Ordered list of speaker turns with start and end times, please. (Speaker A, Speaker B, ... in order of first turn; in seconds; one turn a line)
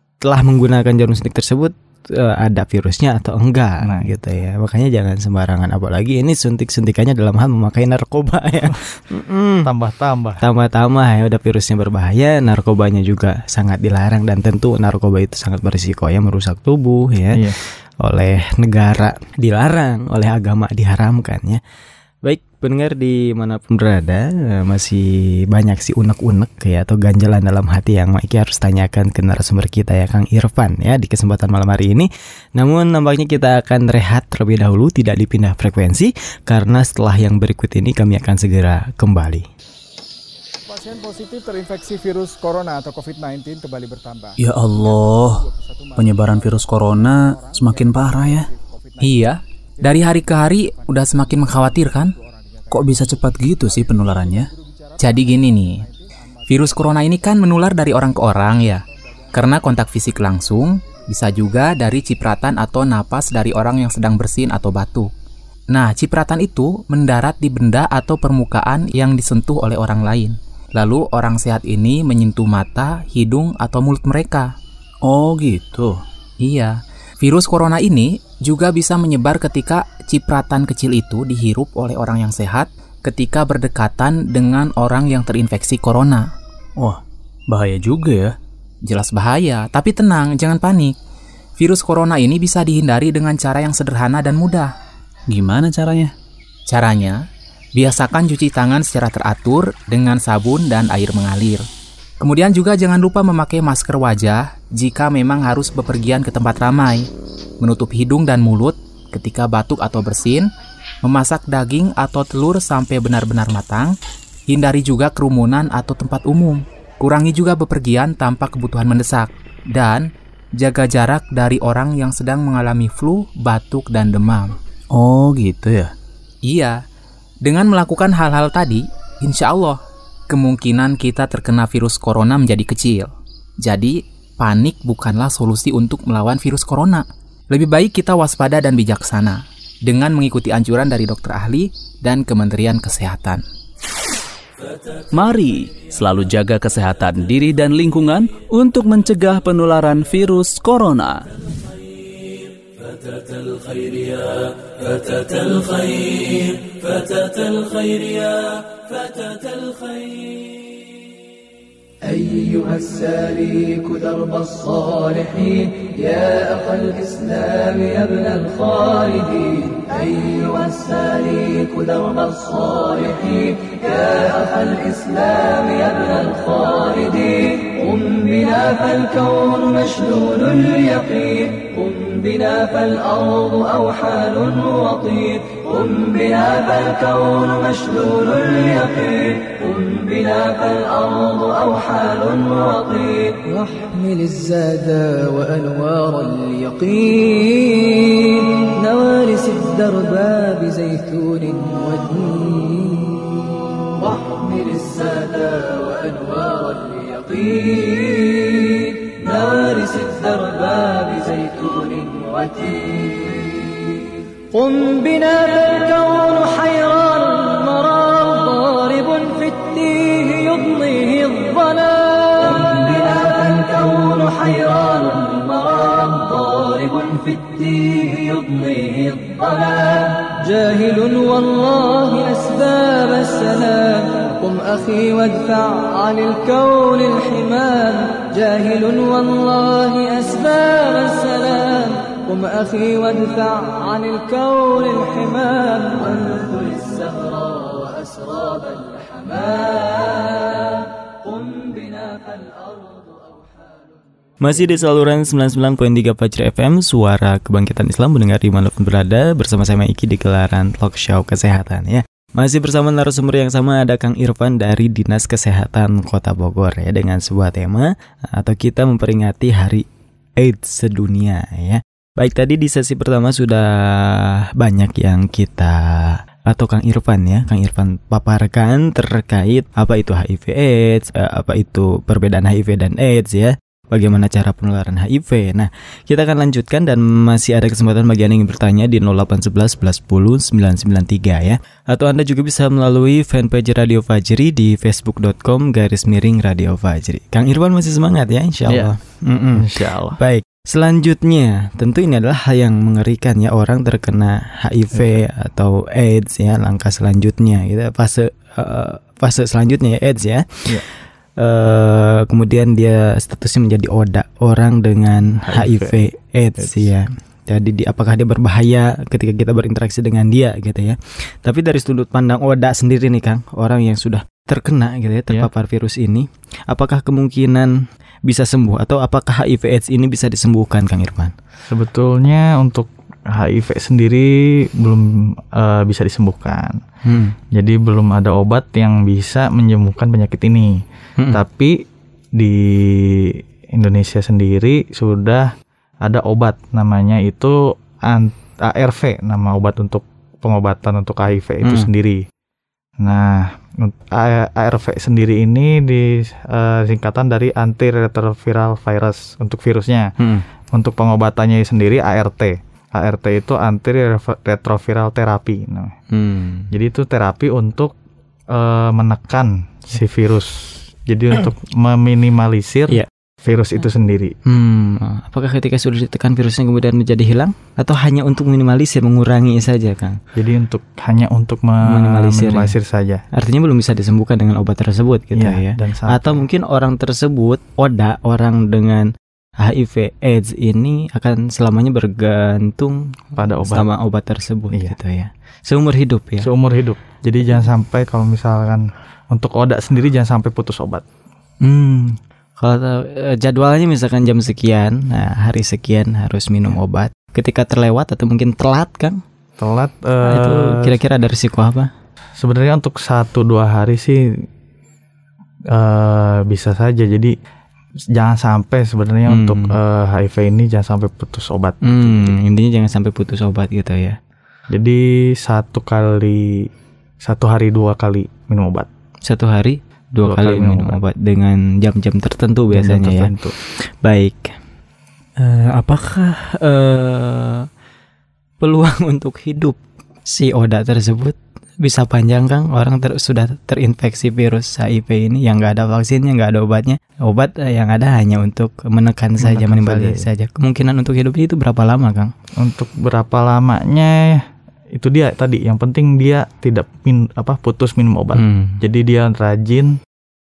Speaker A: 0.2-9.7
Speaker B: 3.8-4.1
Speaker B: 9.6-10.4
Speaker A: 10.4-21.6
Speaker A: 22.2-39.5
Speaker C: 40.7-57.3
Speaker D: 44.4-45.4
Speaker D: 46.0-48.5
Speaker E: 49.0-52.1
Speaker D: 52.7-54.5
Speaker E: 55.0-55.8
Speaker E: 56.5-65.1
Speaker C: 58.0-61.9
Speaker E: 65.7-74.5
Speaker D: 75.0-76.0
Speaker E: 76.4-86.3
Speaker D: 86.8-88.3
Speaker E: 88.9-91.0
Speaker E: 91.6-94.7
Speaker D: 95.3-96.1
Speaker E: 96.7-97.2
Speaker E: 97.8-101.7
Speaker E: 102.2-107.1
Speaker E: 107.6-110.5
Speaker E: 111.0-113.9
Speaker E: 114.5-124.6
Speaker D: 124.9-125.9
Speaker E: 126.5-126.8
Speaker E: 127.4-133.1
Speaker E: 133.6-143.4
Speaker D: 145.1-151.2
Speaker D: 153.2-157.0
Speaker D: 157.8-158.2
Speaker F: 162.1-253.6
Speaker A: 254.4-269.9
Speaker A: 270.4-310.7
Speaker B: 298.7-298.9
Speaker B: 299.6-300.2
Speaker A: 311.4-327.7
Speaker B: 315.4-316.0
Speaker B: 316.6-316.9
Speaker A: 328.3-331.3
Speaker B: 331.7-336.8
Speaker A: 337.1-337.4
Speaker B: 337.5-341.9
Speaker B: 342.4-345.5
Speaker B: 346.0-352.2
Speaker A: 351.6-351.9
Speaker B: 353.0-360.1
Speaker B: 360.7-366.0
Speaker A: 366.1-366.7
Speaker B: 366.7-367.9
Speaker B: 368.5-374.4
Speaker A: 374.5-380.2
Speaker B: 380.4-383.2
Speaker A: 381.9-382.7
Speaker A: 383.3-396.5
Speaker B: 385.3-386.4
Speaker B: 393.4-393.9
Speaker B: 396.4-401.0
Speaker A: 401.6-409.2
Speaker B: 409.6-411.0
Speaker A: 410.2-411.9
Speaker B: 412.4-414.5
Speaker B: 415.7-417.4
Speaker B: 418.1-422.4
Speaker A: 419.3-419.8
Speaker A: 421.8-424.2
Speaker B: 424.7-426.7
Speaker B: 427.2-428.9
Speaker A: 429.3-434.5
Speaker B: 430.2-431.0
Speaker B: 432.7-433.6
Speaker A: 435.4-437.7
Speaker A: 438.6-452.3
Speaker B: 449.4-450.3
Speaker B: 452.6-454.4
Speaker B: 454.9-460.0
Speaker A: 458.4-458.8